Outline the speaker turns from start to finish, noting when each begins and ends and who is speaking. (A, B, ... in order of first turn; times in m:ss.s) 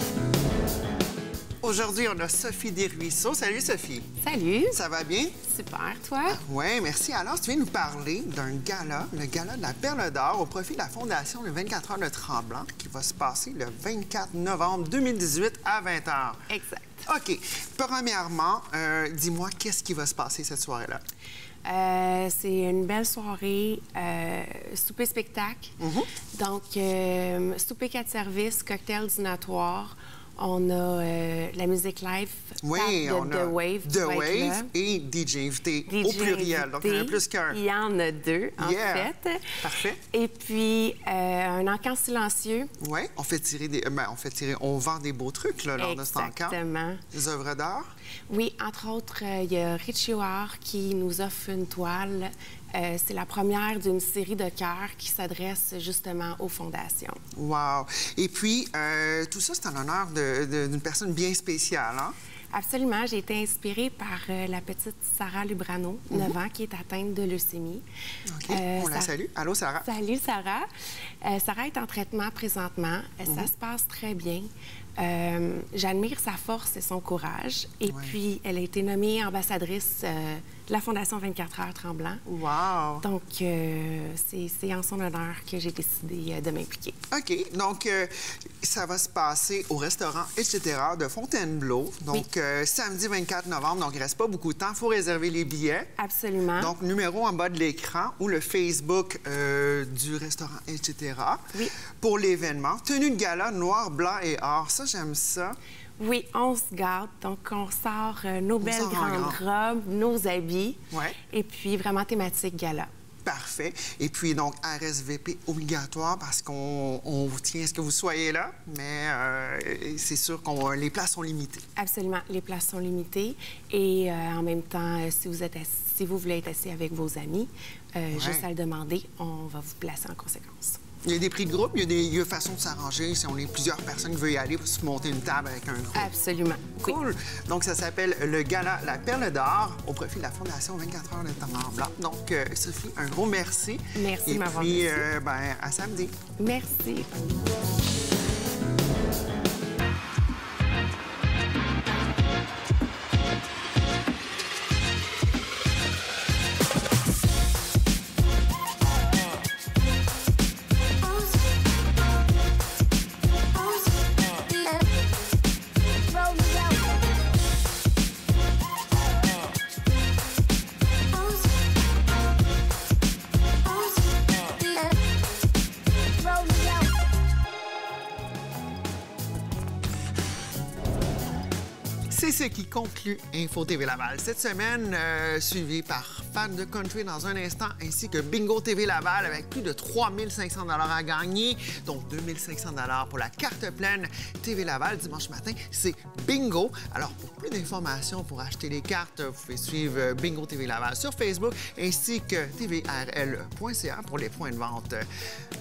0:01.6-0:04.2 A
0:04.2-0:04.8 B
0:04.7-0:05.4 A
0:05.4-0:06.4 B
0:06.3-0:16.4 A
0:16.5-0:17.0 B
0:17.1-0:21.0 A
0:21.6-0:25.8 B
0:25.8-0:26.1 A
0:26.3-0:34.7 B
0:32.6-0:37.6 A
0:35.9-0:39.5 B
0:38.6-0:40.0 A
0:40.0-0:42.7 B
0:42.8-0:46.6 A
0:45.8-0:47.0 B
0:47.1-0:47.9 A
0:48.3-0:57.2 B
0:57.4-1:02.2 A
1:02.5-1:07.8 B
1:08.3-1:09.9 A
1:08.4-1:09.1 B
1:09.8-1:10.7 B
1:11.2-1:22.2 B
1:17.9-1:18.1 A
1:22.3-1:23.0 A
1:23.0-1:27.0 B
1:27.1-1:35.9 A
1:36.0-1:36.8 B
1:36.6-1:41.5 A
1:42.0-1:45.6 A
1:46.0-1:52.9 B
1:48.6-1:49.4 A
1:50.9-1:51.2 A
1:53.2-2:01.6 A
2:01.8-2:10.8 B
2:08.1-2:08.5 A
2:11.0-2:16.1 A
2:16.0-2:17.0 B
2:16.8-2:26.1 A
2:24.0-2:25.1 B
2:26.4-2:27.1 B
3:02.1-3:25.1 A